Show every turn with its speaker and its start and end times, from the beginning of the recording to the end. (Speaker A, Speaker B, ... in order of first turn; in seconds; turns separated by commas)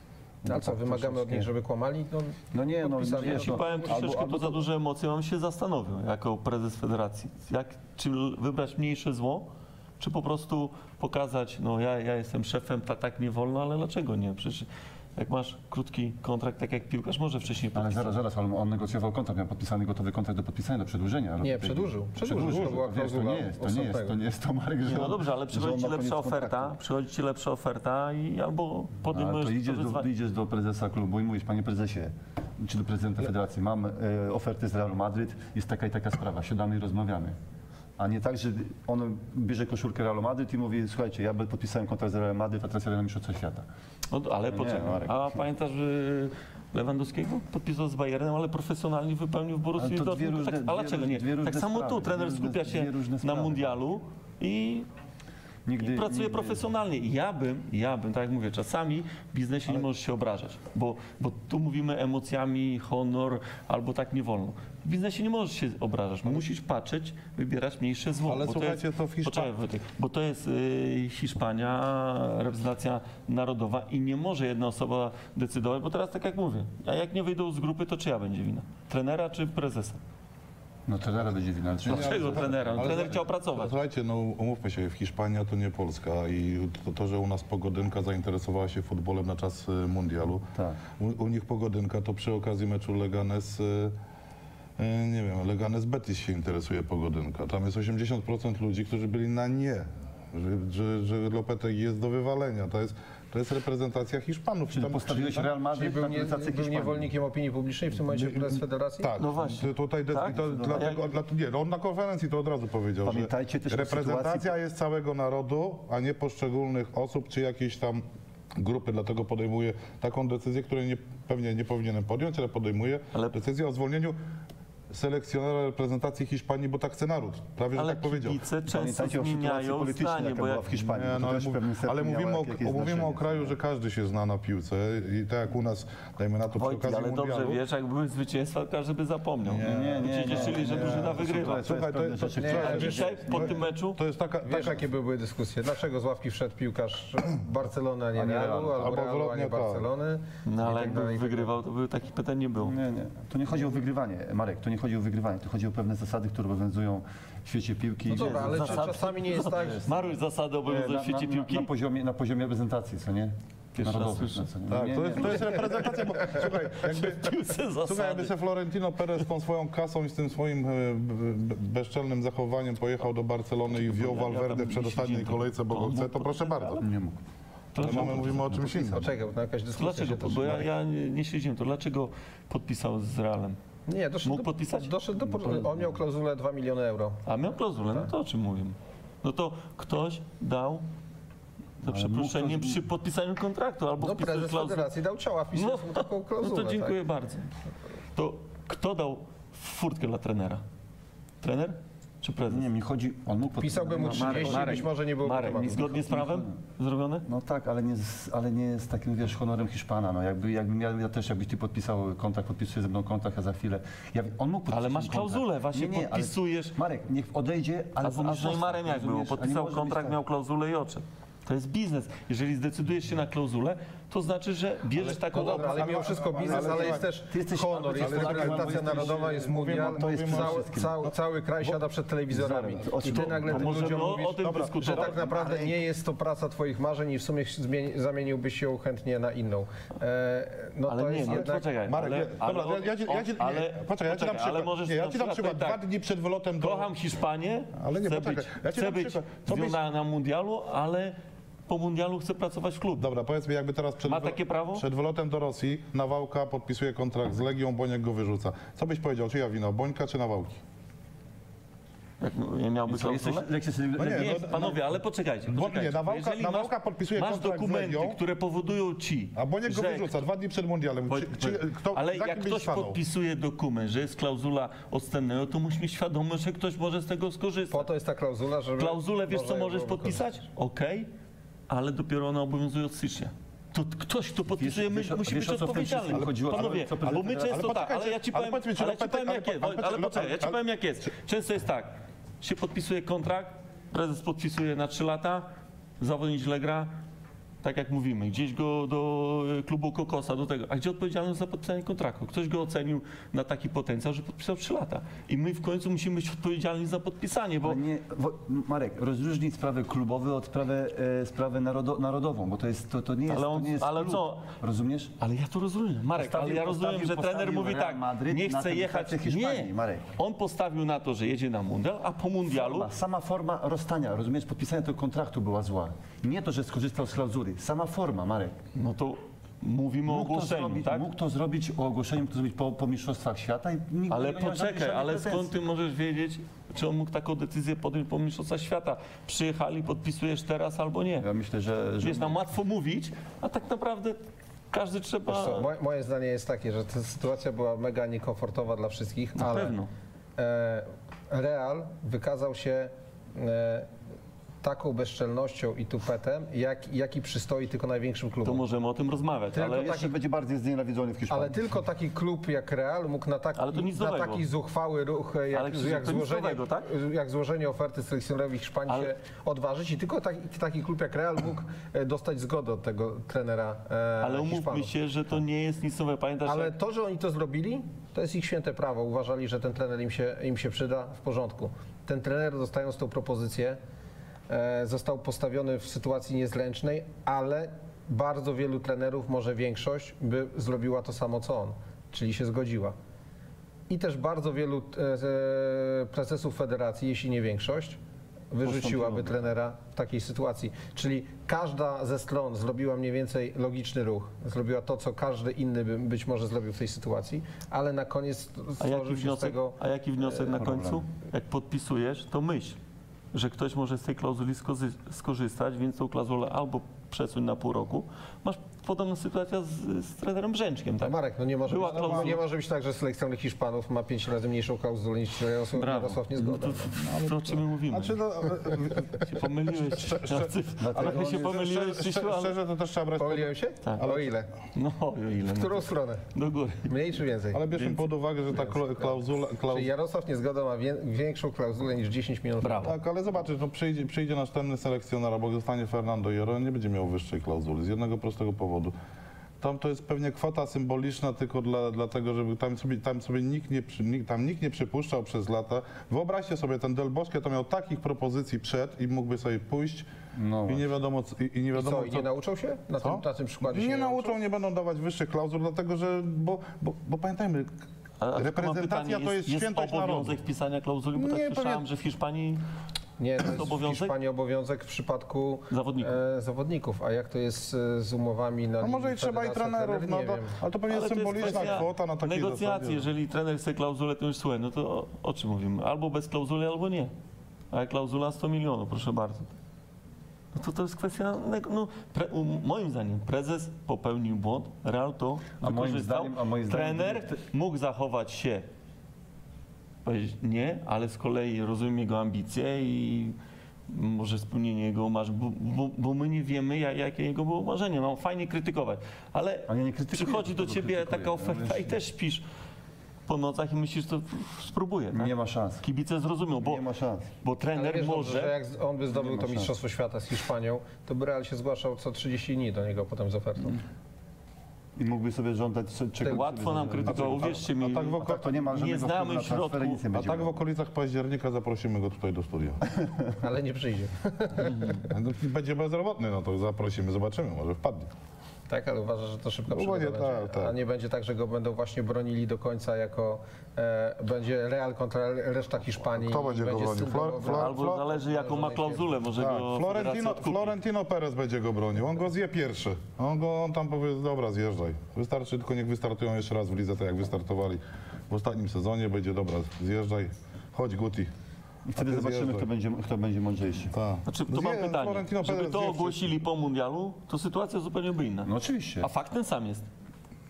Speaker A: 0.4-1.5, Speaker B: 0.5-4.2, Speaker A: 2.5-4.6, Speaker C: 3.0-18.1, Speaker A: 17.7-26.8, Speaker B: 21.4-24.1, Speaker C: 24.8-30.1, Speaker A: 29.1-37.4, Speaker A: 38.0-43.6, Speaker C: 44.1-54.9, Speaker A: 44.5-45.5, Speaker A: 49.8-53.8, Speaker A: 55.6-56.6, Speaker C: 55.8-80.0, Speaker D: 68.2-69.5, Speaker A: 80.9-83.1, Speaker C: 81.8-83.8, Speaker D: 81.8-90.5, Speaker A: 90.5-90.8, Speaker D: 91.0-93.9, Speaker D: 94.8-105.5, Speaker A: 104.7-107.1, Speaker B: 105.7-109.2, Speaker D: 108.1-118.0, Speaker C: 109.2-111.1, Speaker A: 110.2-111.0, Speaker A: 113.0-114.5, Speaker D: 118.5-124.2, Speaker C: 123.1-123.4, Speaker D: 124.9-128.4, Speaker C: 127.7-130.8, Speaker A: 128.7-133.6, Speaker D: 130.9-137.6, Speaker C: 136.5-141.7, Speaker D: 139.4-144.8, Speaker A: 139.6-143.6, Speaker B: 142.4-142.9, Speaker C: 142.5-144.0, Speaker B: 144.4-151.5, Speaker A: 148.1-148.8, Speaker D: 148.7-149.9, Speaker C: 150.4-152.7, Speaker A: 152.6-165.7, Speaker B: 158.1-159.8, Speaker C: 158.1-161.7, Speaker C: 163.7-164.5, Speaker D: 164.7-176.8, Speaker C: 165.0-168.4, Speaker C: 173.7-176.9, Speaker A: 176.8-177.2, Speaker C: 177.7-178.9, Speaker A: 177.8-178.8, Speaker D: 177.8-179.1, Speaker B: 178.8-180.7, Speaker C: 179.7-183.6, Speaker B: 183.9-187.2, Speaker C: 184.2-184.9, Speaker A: 185.2-186.0, Speaker C: 187.2-190.8, Speaker A: 191.8-192.8, Speaker C: 191.8-194.9, Speaker B: 194.0-197.0, Speaker C: 195.5-197.5, Speaker C: 198.1-200.6, Speaker C: 201.4-202.7, Speaker A: 202.5-204.8, Speaker B: 203.6-205.9, Speaker C: 204.0-207.3, Speaker A: 205.8-206.5, Speaker A: 207.2-220.2, Speaker C: 214.7-216.8, Speaker C: 218.0-225.9, Speaker D: 224.9-227.1, Speaker B: 225.3-241.6, Speaker A: 226.0-230.9, Speaker D: 227.9-230.7, Speaker A: 232.3-234.1, Speaker C: 233.1-235.3, Speaker D: 234.4-235.7, Speaker C: 240.9-245.8, Speaker D: 241.8-246.9, Speaker C: 246.6-251.1, Speaker D: 247.8-249.8, Speaker C: 251.7-253.1, Speaker D: 253.0-260.6, Speaker C: 254.0-254.8, Speaker C: 262.2-270.1, Speaker A: 262.9-264.8, Speaker D: 264.0-264.8, Speaker D: 265.5-268.2, Speaker D: 269.4-273.0, Speaker C: 271.1-277.9, Speaker B: 277.7-280.2, Speaker C: 278.8-281.1, Speaker C: 281.7-296.9, Speaker A: 284.6-287.7, Speaker D: 286.1-290.6, Speaker C: 297.6-307.8, Speaker A: 307.6-315.1, Speaker C: 313.3-314.4, Speaker C: 315.2-322.9, Speaker A: 316.1-320.1, Speaker A: 322.4-328.6, Speaker C: 328.7-331.1, Speaker A: 330.1-335.5, Speaker C: 334.1-341.3, Speaker A: 341.2-342.3, Speaker C: 342.0-345.7, Speaker B: 345.2-349.7, Speaker C: 349.4-349.9, Speaker B: 350.4-353.9, Speaker B: 354.6-358.6, Speaker C: 358.4-360.1, Speaker A: 359.5-361.6, Speaker B: 359.6-360.1, Speaker B: 361.3-374.9, Speaker C: 363.6-364.4, Speaker C: 365.5-366.9, Speaker C: 374.2-376.7, Speaker B: 376.4-383.8, Speaker B: 384.5-392.9, Speaker B: 393.9-398.0, Speaker B: 398.5-409.8, Speaker A: 398.6-399.4, Speaker C: 408.8-412.8, Speaker A: 410.3-411.0, Speaker C: 413.3-422.4, Speaker B: 421.0-426.9, Speaker D: 421.8-422.4, Speaker C: 425.8-428.2, Speaker D: 427.0-434.4, Speaker C: 429.3-432.5, Speaker A: 430.8-431.6, Speaker B: 433.2-434.5, Speaker C: 434.7-436.9, Speaker B: 435.5-436.2, Speaker B: 436.9-437.6, Speaker D: 437.5-439.9, Speaker C: 437.8-438.0, Speaker B: 438.5-442.9, Speaker C: 442.6-442.9, Speaker D: 442.8-448.9, Speaker D: 449.6-460.1, Speaker A: 460.3-460.8, Speaker D: 460.7-462.3, Speaker B: 461.7-464.4, Speaker D: 463.0-467.8, Speaker C: 468.2-472.6, Speaker D: 468.3-470.4, Speaker D: 471.1-471.8, Speaker B: 473.2-480.5, Speaker C: 473.4-474.1, Speaker C: 475.7-476.1, Speaker D: 478.8-483.1, Speaker C: 480.9-487.1, Speaker C: 487.7-489.6, Speaker C: 490.5-498.7, Speaker A: 495.6-497.4, Speaker C: 500.0-503.4, Speaker C: 503.9-512.4, Speaker A: 509.7-512.0, Speaker C: 513.3-516.8, Speaker A: 515.1-515.8, Speaker A: 516.5-517.3, Speaker C: 517.4-518.5, Speaker B: 517.7-523.8, Speaker A: 519.1-519.7, Speaker A: 525.0-530.6, Speaker C: 526.2-530.0, Speaker D: 527.1-528.5, Speaker D: 530.1-532.8, Speaker B: 533.4-535.1, Speaker C: 534.6-535.0, Speaker D: 535.1-538.1, Speaker B: 538.7-549.1, Speaker D: 539.7-540.8, Speaker D: 546.0-548.0, Speaker C: 547.5-550.7, Speaker D: 549.3-561.3, Speaker A: 561.9-563.9, Speaker D: 561.9-562.7, Speaker D: 563.9-566.4, Speaker C: 564.2-569.9, Speaker A: 568.4-569.1